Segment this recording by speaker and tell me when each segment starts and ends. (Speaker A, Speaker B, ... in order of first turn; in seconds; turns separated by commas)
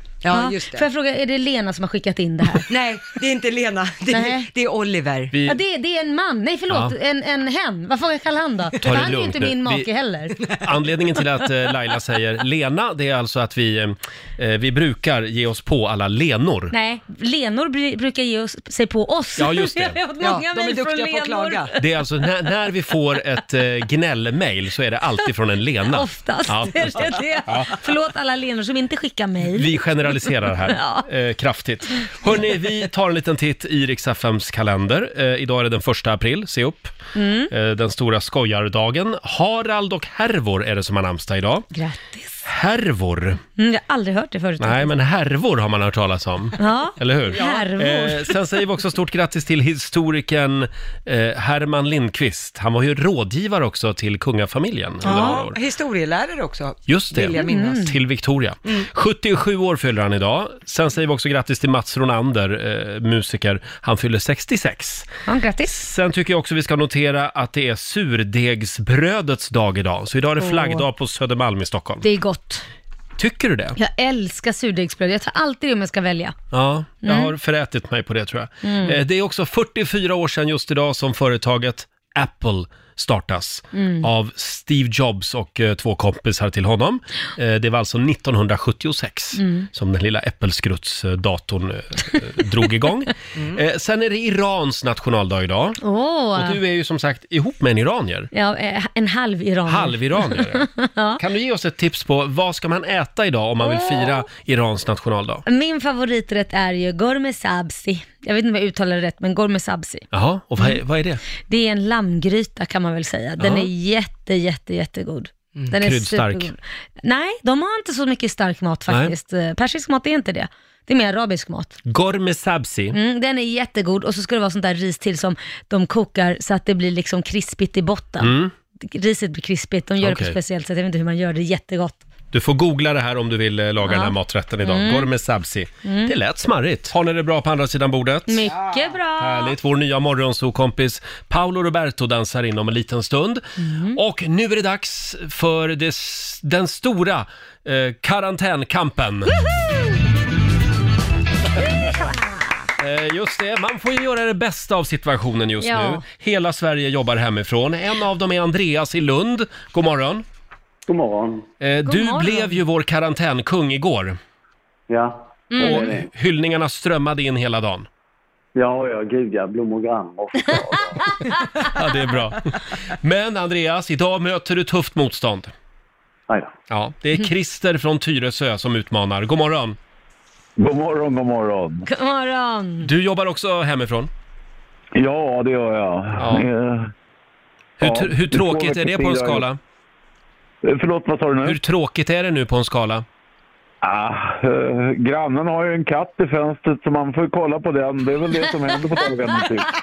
Speaker A: 0.2-0.9, Speaker B: 0.3-2.7, Speaker A: 2.6-5.3, Speaker B: 4.1-4.5, Speaker C: 5.3-5.6, Speaker B: 5.4-10.4, Speaker C: 8.8-9.9, Speaker C: 10.5-16.7, Speaker B: 16.7-21.8, Speaker C: 19.4-20.0, Speaker A: 20.2-21.7, Speaker C: 21.8-27.8, Speaker B: 25.9-31.1, Speaker C: 29.5-36.9, Speaker B: 37.1-37.5, Speaker C: 37.5-41.6, Speaker B: 41.7-42.4, Speaker C: 42.4-43.4, Speaker B: 43.6-44.9, Speaker C: 44.6-55.5, Speaker B: 46.6-48.3, Speaker A: 55.0-57.9, Speaker C: 56.9-65.1, Speaker B: 57.4-57.9, Speaker B: 65.3-65.7, Speaker C: 65.7-72.0, Speaker B: 70.4-70.8, Speaker B: 72.0-72.6, Speaker C: 73.2-73.8, Speaker B: 73.8-76.3, Speaker C: 76.5-95.8, Speaker B: 77.0-77.3, Speaker B: 78.6-79.0, Speaker B: 83.7-84.1, Speaker B: 89.3-89.7, Speaker B: 95.8-96.6, Speaker C: 96.3-98.3, Speaker B: 98.3-101.2, Speaker C: 99.7-105.4, Speaker B: 103.6-104.2, Speaker B: 105.5-110.0, Speaker C: 110.1-111.2, Speaker B: 111.4-121.8, Speaker C: 113.4-113.7, Speaker C: 115.7-116.5, Speaker C: 121.8-123.0, Speaker B: 122.9-132.0, Speaker C: 128.2-128.5, Speaker C: 130.0-130.3, Speaker C: 132.3-138.5, Speaker B: 133.8-135.1, Speaker B: 135.8-136.1, Speaker B: 138.3-139.6, Speaker C: 139.2-149.3, Speaker B: 143.6-144.0, Speaker B: 151.6-152.6, Speaker C: 152.8-160.2, Speaker B: 155.6-156.0, Speaker D: 160.9-161.5, Speaker C: 161.6-164.2, Speaker B: 161.8-162.6, Speaker D: 164.9-166.1, Speaker B: 165.5-165.9, Speaker C: 165.6-167.9, Speaker D: 168.5-171.2, Speaker C: 171.6-175.5, Speaker C: 176.7-179.8, Speaker E: 180.6-181.8, Speaker B: 181.9-182.9, Speaker C: 182.8-184.1, Speaker E: 184.9-186.9, Speaker C: 186.2-186.4, Speaker E: 187.8-189.5, Speaker C: 187.8-189.6, Speaker E: 190.6-191.6, Speaker C: 191.4-193.0, Speaker E: 193.8-199.7